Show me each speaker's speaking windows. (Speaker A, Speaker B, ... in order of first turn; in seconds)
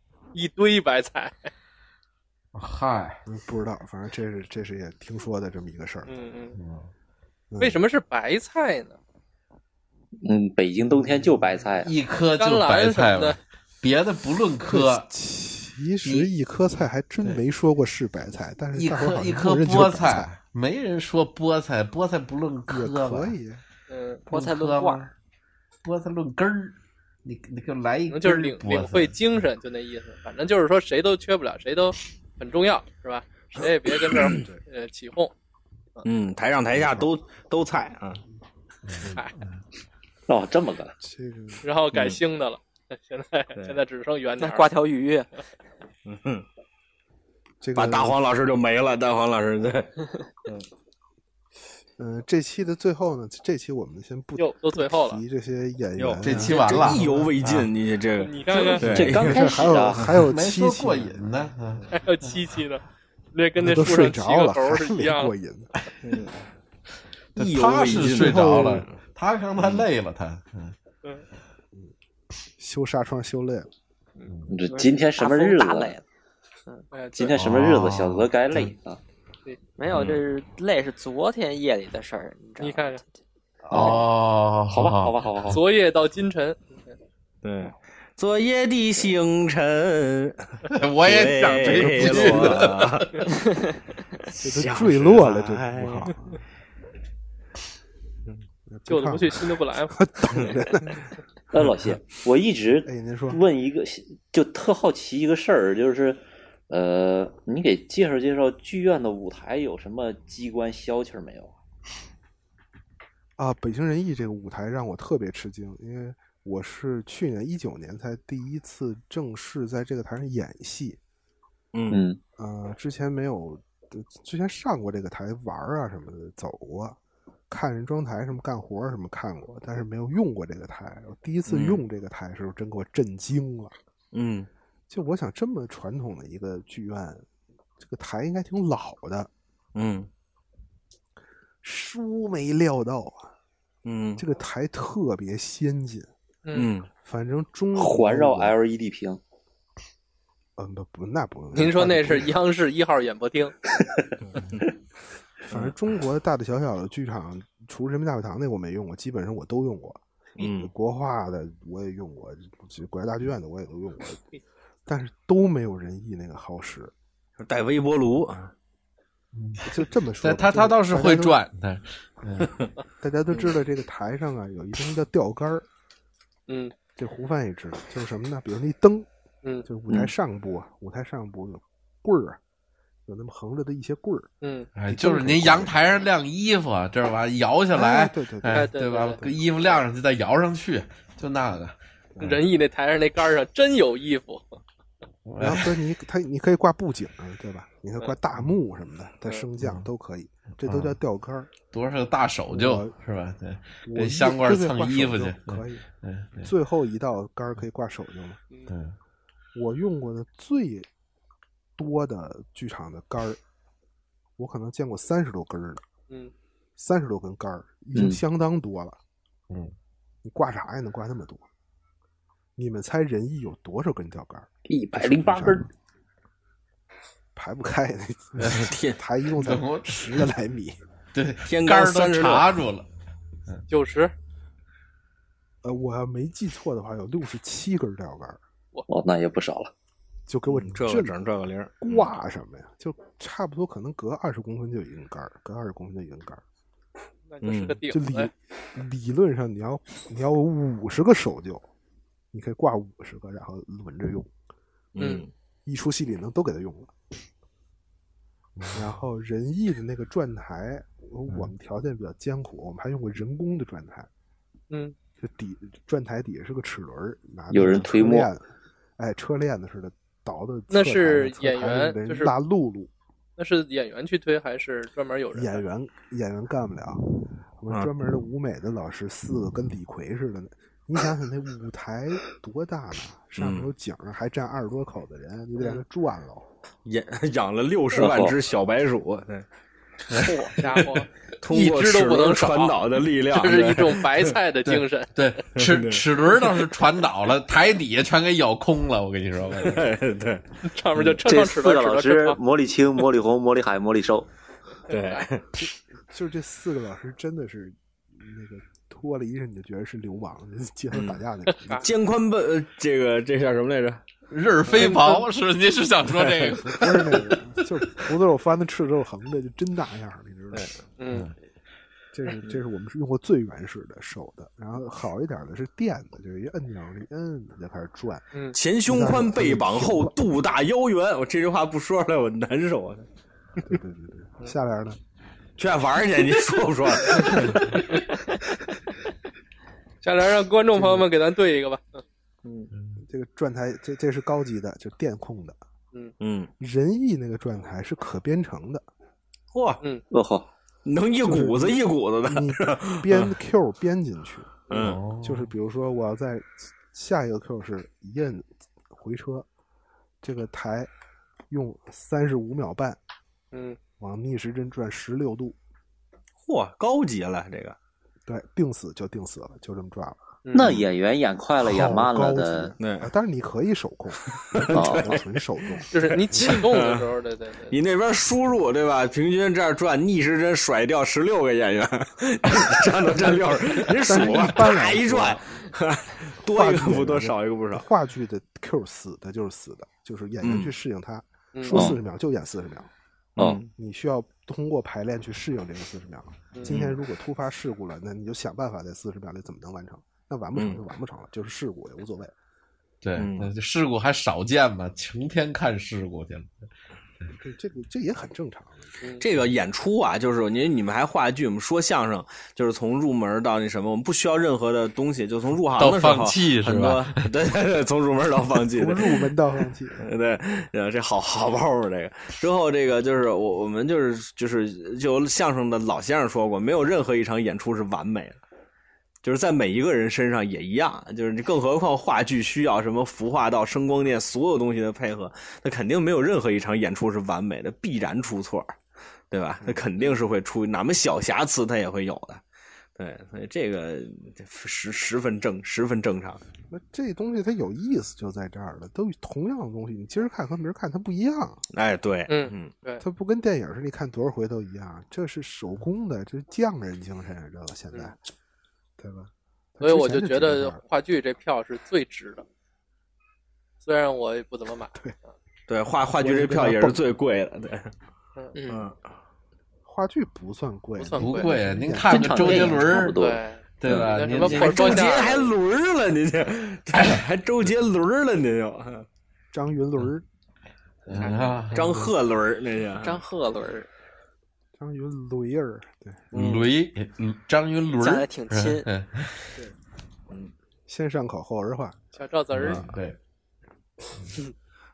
Speaker A: 0.3-1.5, 6.1-6.6, 7.6-9.0, 12.4-13.4, 23.9-24.2, 28.1-35.3, 41.6-44.7, 54.4-55.2, 58.2-58.9, 61.9-62.8, 63.3-65.3, 76.9-77.3, 82.6-83.0, 85.5-87.0, 98.9-100.0, 151.5-153.5, 176.5-176.7, 184.4-184.7, 188.5-189.2, 192.2-194.6, 233.7-234.1, 247.3-248.3, 255.0-255.2, 270.7-272.3, 273.4-275.6, 290.2-292.8, 293.3-295.1, 300.7-302.4, 304.9-305.2, 314.8-315.2, 321.0-321.3, 340.0-342.0, 363.5-363.8, 370.4-370.7, 375.9-377.8, 391.5-391.9, 452.3-453.0, 459.8-462.4, 463.8-465.3, 468.4-468.8, 471.0-471.5, 473.1-475.5, 481.1-481.6, 492.1-492.8
Speaker B: 2.5-3.2, 6.6-6.9, 11.0-15.1, 16.0-16.3, 18.7-23.3, 24.3-25.1, 25.8-29.1, 38.9-39.6, 56.2-57.7, 60.1-62.3, 67.3-70.7, 74.3-74.5, 77.3-78.8, 83.7-85.6, 90.7-93.2, 169.3-172.5, 184.8-192.4, 195.2-195.8, 199.6-199.9, 200.6-201.0, 201.7-206.5, 208.7-208.9, 229.4-230.2, 231.1-232.9, 258.6-258.8, 294.6-299.9, 314.3-317.2, 354.7-355.5, 403.0-406.5, 415.8-417.2, 471.2-473.2, 473.8-475.1, 481.1-482.1, 486.3-489.5, 492.5-493.2
Speaker C: 3.2-6.1, 7.5-7.8, 14.7-20.3, 22.7-23.6, 34.3-34.6, 36.8-37.0, 41.0-41.6, 47.6-48.1, 52.0-57.1, 59.1-61.2, 63.6-65.7, 68.1-68.8, 72.6-73.7, 91.7-92.5, 94.4-96.4, 98.7-101.0, 102.8-103.4, 113.4-121.0, 122.4-127.0, 127.5-133.8, 134.9-137.2, 137.8-139.3, 141.6-143.3, 144.2-146.1, 147.0-148.6, 150.6-152.3, 155.5-164.2, 164.8-166.9, 169.7-171.4, 173.0-175.7, 177.0-179.1, 179.6-182.4, 183.1-184.3, 184.9-185.9, 187.7-189.4, 195.4-201.5, 202.5-202.9, 203.8-205.8, 206.4-208.4, 209.5-210.9, 211.8-213.4, 214.4-215.8, 216.8-219.0, 220.2-221.4, 222.6-225.7, 227.3-230.8, 235.6-238.4, 240.3-241.2, 241.8-246.4, 247.9-251.7, 252.3-254.3, 255.6-256.9, 258.7-264.1, 265.2-272.9, 275.3-277.0, 277.6-286.5, 306.1-311.8, 316.7-320.7, 322.1-328.2, 328.8-330.1, 333.6-335.0, 340.8-341.0, 343.1-345.6, 346.6-348.9, 351.2-354.7, 355.2-359.5, 360.2-360.9, 361.5-363.0, 364.0-365.6, 368.2-370.2, 371.6-375.9, 383.9-385.4, 386.4-392.9, 393.8-402.3, 407.4-408.9, 418.7-420.0, 439.6-439.9, 446.7-451.6, 453.0-458.2, 459.0-460.8, 466.2-467.0, 469.8-472.8, 479.5-480.2, 484.8-486.2, 490.9-492.0
Speaker D: 10.2-11.9, 40.3-40.9, 58.8-60.1, 74.5-76.0, 77.1-79.0, 83.7-84.0, 84.7-85.6, 101.5-111.5, 121.9-122.2, 147.7-149.2, 217.9-218.2, 224.7-225.7, 238.9-239.7, 267.5-268.3, 287.9-288.4, 301.2-304.3, 350.1-350.5, 370.5-372.7, 374.7-375.1, 391.7-392.0, 472.0-473.4
Speaker E: 24.3-25.1, 44.4-45.3, 74.7-76.0, 79.8-83.1, 483.0-483.9, 487.9-488.9
Speaker F: 36.0-38.2, 41.9-42.2, 46.0-46.4, 47.7-49.9, 56.0-59.7, 66.0-66.4, 67.3-69.0, 69.6-69.8, 79.9-80.2, 87.4-93.1, 94.3-96.1, 121.7-122.0, 131.5-131.8, 134.1-134.5, 139.7-140.1, 143.8-144.2, 146.5-146.9, 154.3-154.6, 160.4-160.7, 167.4-168.5, 228.6-229.0, 231.4-232.5, 240.5-242.1, 247.4-247.8, 254.9-255.3, 283.4-283.7, 286.9-289.4, 291.4-294.3, 295.5-296.0, 299.5-300.4, 304.9-305.4, 310.9-311.2, 311.8-314.0, 316.1-316.6, 328.5-333.1, 335.6-337.7, 342.4-342.7, 346.2-346.5, 349.5-349.8, 350.9-353.3, 354.7-355.0, 366.4-367.8, 372.8-373.1, 374.5-375.2, 375.8-377.0, 377.7-387.9, 390.4-390.7, 393.4-393.7, 396.6-397.0, 400.6-400.8, 403.2-403.5, 409.2-419.2, 420.0-428.4, 429.2-438.7, 439.3-442.4, 443.0-446.4, 451.7-452.7, 465.7-467.9, 468.7-469.0, 473.9-479.1, 481.7-483.2, 486.3-486.7, 492.6-492.9